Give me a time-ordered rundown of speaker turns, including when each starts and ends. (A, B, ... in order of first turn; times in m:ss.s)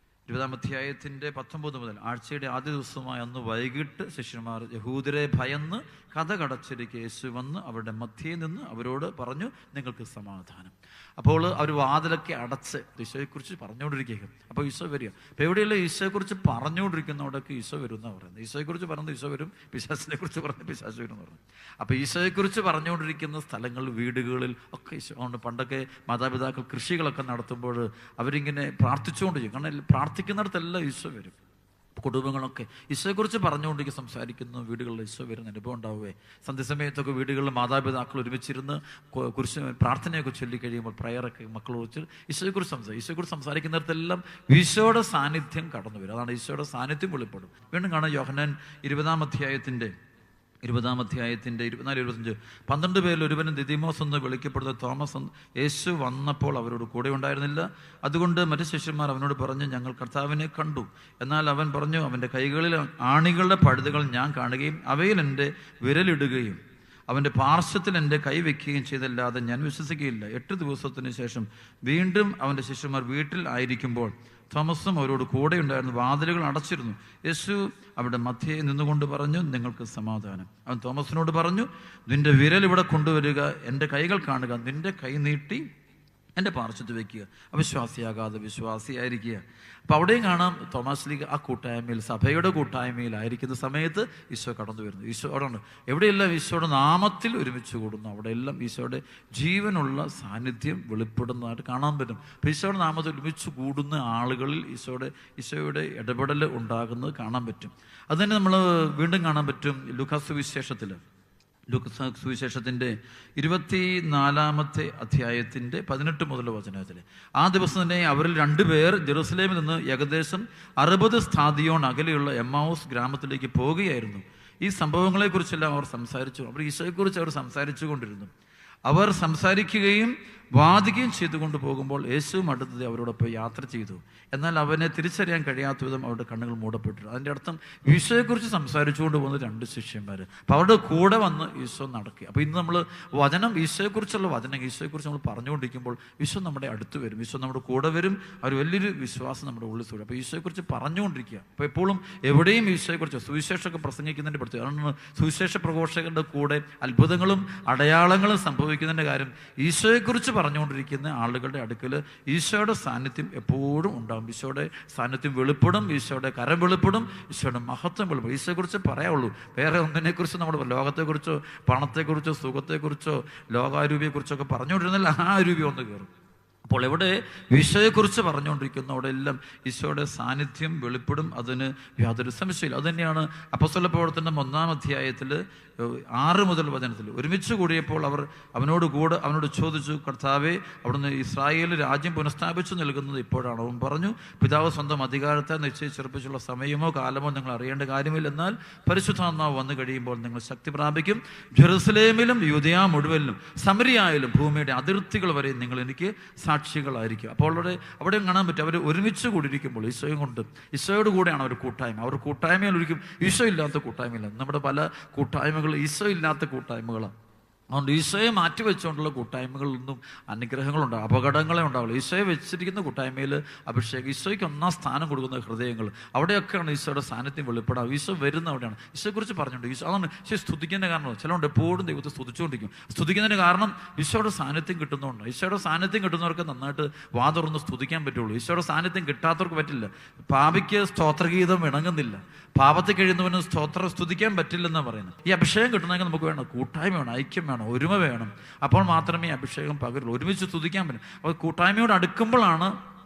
0:00.3-0:31.3 A
0:32.0-0:49.9 A
0:50.6-1:25.7 A
1:26.4-1:51.0 A
1:51.7-2:08.3 A
2:08.8-2:56.1 A
2:56.7-3:37.1 A
3:37.7-4:12.7 A